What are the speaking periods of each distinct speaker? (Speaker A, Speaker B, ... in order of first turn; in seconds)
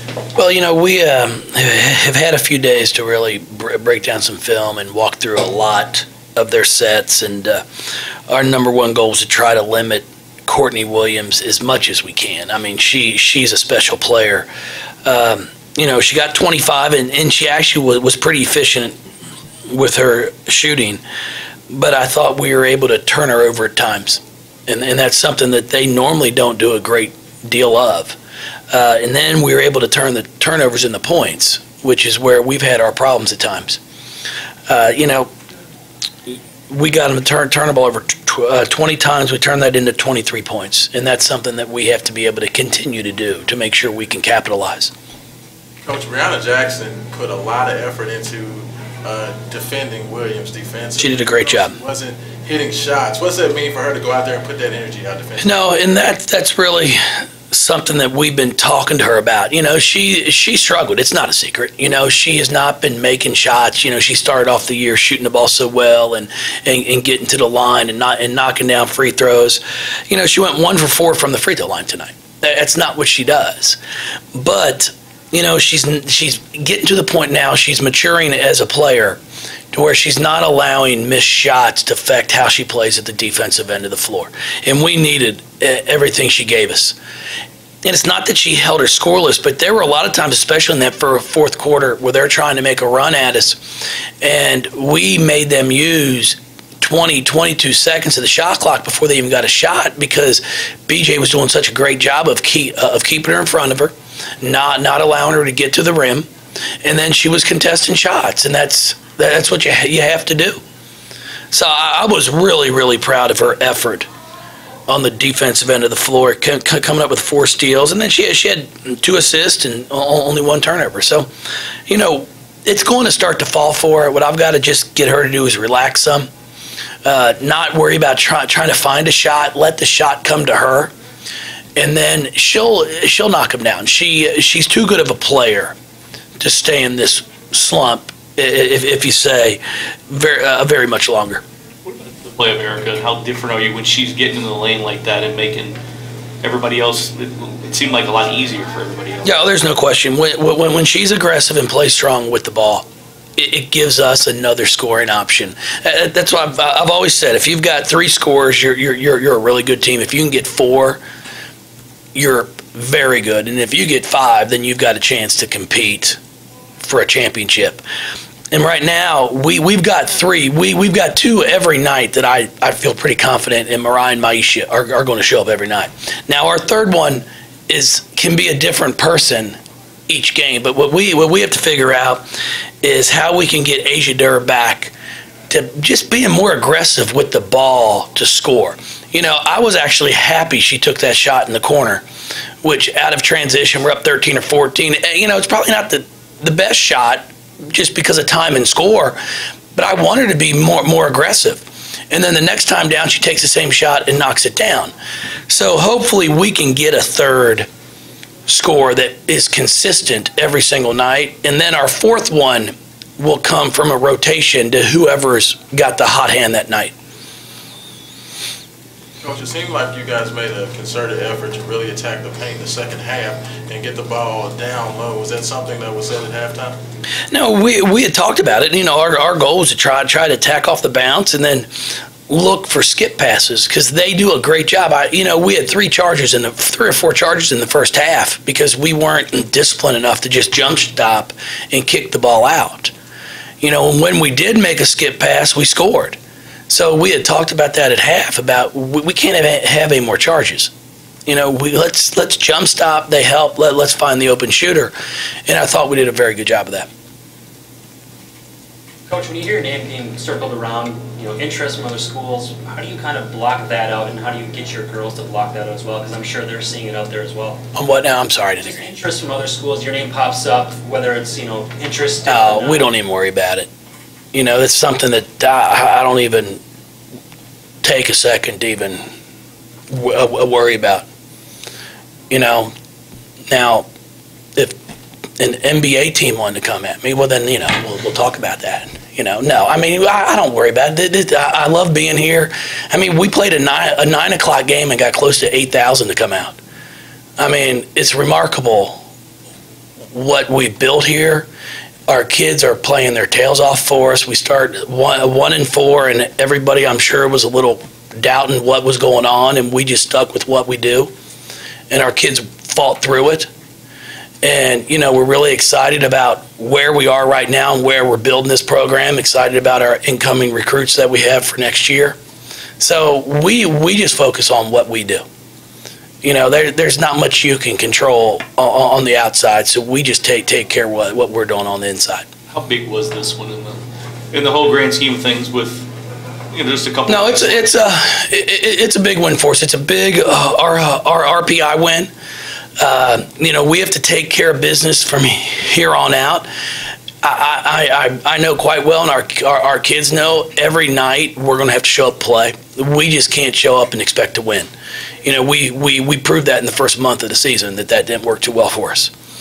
Speaker A: 0.3-7.6, 8.3-14.5, 15.0-18.9, 19.7-21.0, 21.7-28.2, 28.7-33.8, 34.7-35.3, 36.3-44.9, 51.0-51.8, 55.4-73.8, 74.3-79.2, 79.7-87.0, 87.8-93.6, 94.2-106.3, 106.8-110.6, 111.5-114.1, 114.9-121.3, 121.9-126.3, 127.0-130.9, 131.8-135.8, 136.4-141.4, 149.2-161.0, 162.1-166.2, 166.8-167.8, 168.5-182.3, 182.8-184.9, 185.5-192.0, 192.6-199.2, 199.7-204.9, 205.5-207.7, 208.5-216.9, 227.3-231.7, 232.3-242.9, 243.6-246.2, 246.7-250.7, 251.3-254.9, 255.5-256.9, 267.7-268.8, 272.2-273.7, 274.3-276.6, 277.8-279.0, 279.9-281.1, 282.3-282.7, 283.5-283.9, 285.4-296.6, 297.4-299.0, 300.1-301.5, 302.1-311.1, 311.9-313.5, 314.4-322.2, 322.8-325.2, 326.2-332.3, 337.1-342.1, 342.8-346.5, 347.2-354.7, 355.2-359.1
Speaker B: 45.8-55.6, 219.2-226.8
Speaker C: 141.8-145.8, 146.4-149.3, 332.5-335.9, 336.5-337.7
Speaker D: 259.1-267.6, 268.6-272.9